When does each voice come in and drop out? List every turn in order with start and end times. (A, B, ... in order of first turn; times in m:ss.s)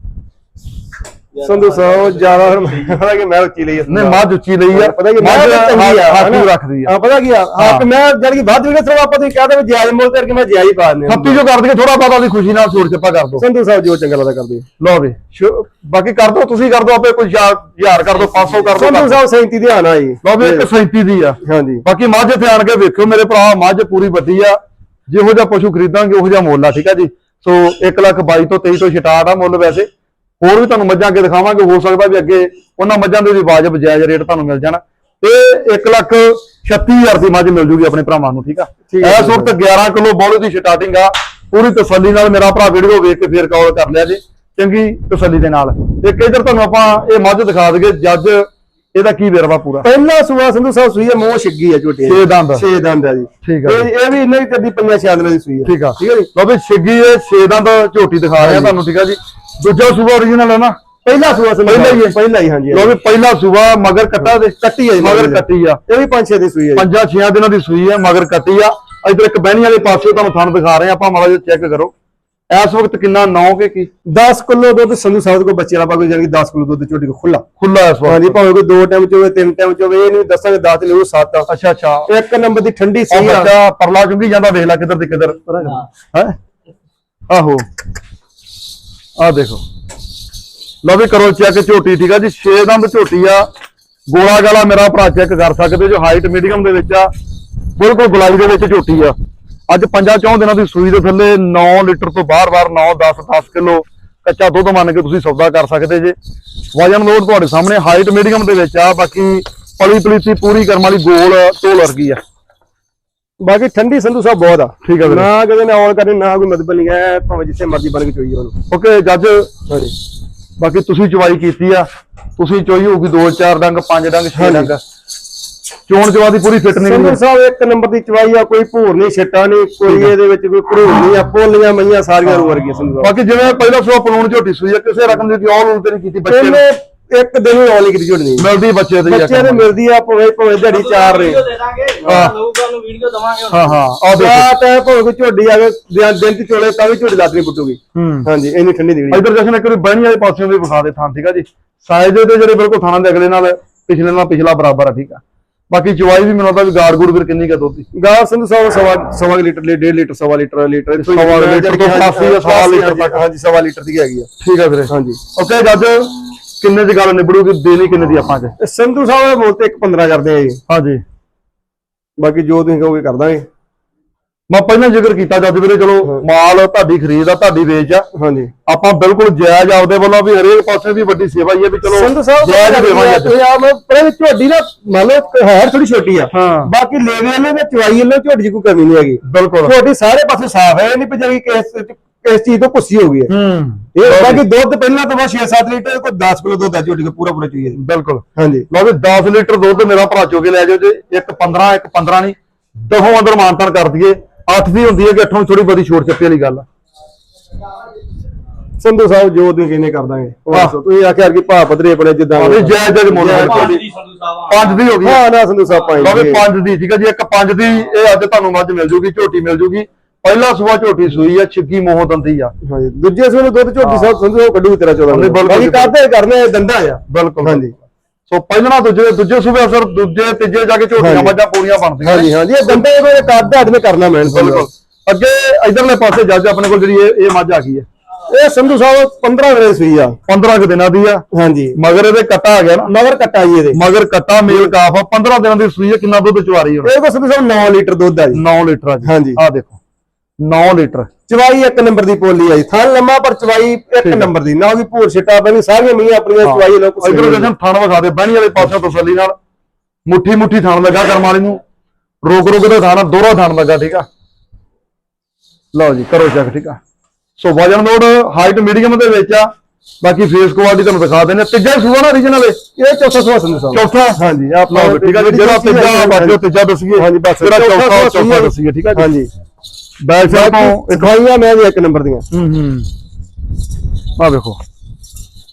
0:01.4-0:02.9 A
0:01.4-0:11.4 B
0:03.9-0:06.9 C
0:07.6-0:07.9 C
0:11.1-0:13.4 C
0:13.4-0:14.7 B
0:14.8-0:19.2 C
0:18.7-0:20.6 B
0:20.2-0:29.9 C
0:21.4-0:21.8 B
0:30.4-0:49.9 C
0:38.9-0:39.5 B
0:49.8-0:56.3 B
0:52.1-0:52.6 C
0:53.4-0:53.9 C
0:55.6-1:00.8 C
0:58.4-0:58.7 B
1:01.0-1:03.0 B
1:01.6-1:02.1 C
1:02.7-1:05.8 C
1:04.6-1:06.9 B
1:06.8-1:11.9 C
1:12.5-1:13.9 C
1:14.1-1:17.4 B
1:17.6-1:18.4 C
1:18.0-1:21.5 B
1:21.5-1:22.1 C
1:22.1-1:23.5 B
1:23.1-1:26.4 C
1:27.3-1:27.6 C
1:29.2-1:29.6 C
1:30.8-1:33.5 C
1:34.1-1:37.1 C
1:37.8-1:39.1 C
1:39.7-1:46.2 C
1:46.7-1:52.2 C
1:53.4-1:58.6 B
1:54.8-1:55.3 C
1:58.7-1:59.5 C
1:59.7-1:59.9 B
2:00.6-2:04.8 C
2:04.4-2:04.7 B
2:05.9-2:07.2 C
2:06.8-2:13.1 B
2:09.9-2:10.1 C
2:13.0-2:16.6 C
2:16.3-2:18.5 B
2:18.4-2:19.7 C
2:19.1-2:21.4 B
2:20.6-2:23.8 A
2:22.1-2:22.4 C
2:23.5-2:24.5 C
2:24.1-2:29.2 B
2:27.9-2:28.3 C
2:29.1-2:37.9 C
2:38.0-2:44.3 B
2:41.0-2:43.2 C
2:44.4-2:48.6 C
2:44.9-2:45.2 B
2:48.6-2:50.6 B
2:50.7-2:51.0 C
2:52.2-2:53.5 B
2:54.5-2:58.1 C
2:58.1-2:58.5 B
2:58.7-3:03.3 C
3:01.9-3:13.3 B
3:06.3-3:06.7 C
3:09.2-3:09.7 C
3:13.3-3:14.4 C
3:13.9-3:17.8 B
3:17.8-3:26.6 C
3:18.4-3:18.7 B
3:28.8-3:33.8 B
3:30.5-3:30.8 C
3:32.4-3:33.9 C
3:33.3-3:34.7 A
3:34.5-3:35.2 C
3:35.0-3:36.4 B
3:36.0-3:42.5 C
3:42.6-3:47.7 B
3:43.8-3:44.1 C
3:45.1-3:45.9 C
3:47.1-3:47.7 C
3:48.3-3:52.3 C
3:51.0-3:51.4 B
3:52.0-3:54.7 B
3:54.3-3:57.9 C
3:58.3-4:00.2 B
4:00.3-4:02.9 C
4:01.3-4:01.8 B
4:02.8-4:03.8 B
4:03.7-4:06.9 C
4:06.8-4:08.4 B
4:08.3-4:09.8 C
4:09.0-4:09.4 B
4:10.4-4:11.1 C
4:11.3-4:17.5 B
4:14.0-4:14.3 C
4:16.4-4:19.4 C
4:20.1-4:21.6 C
4:22.2-4:24.1 C
4:25.7-4:26.8 C
4:27.4-4:32.6 C
4:32.8-4:36.4 B
4:33.7-4:39.1 C
4:36.9-4:39.3 B
4:40.0-4:41.1 C
4:40.2-4:42.2 B
4:42.3-4:42.9 C
4:44.2-4:44.6 C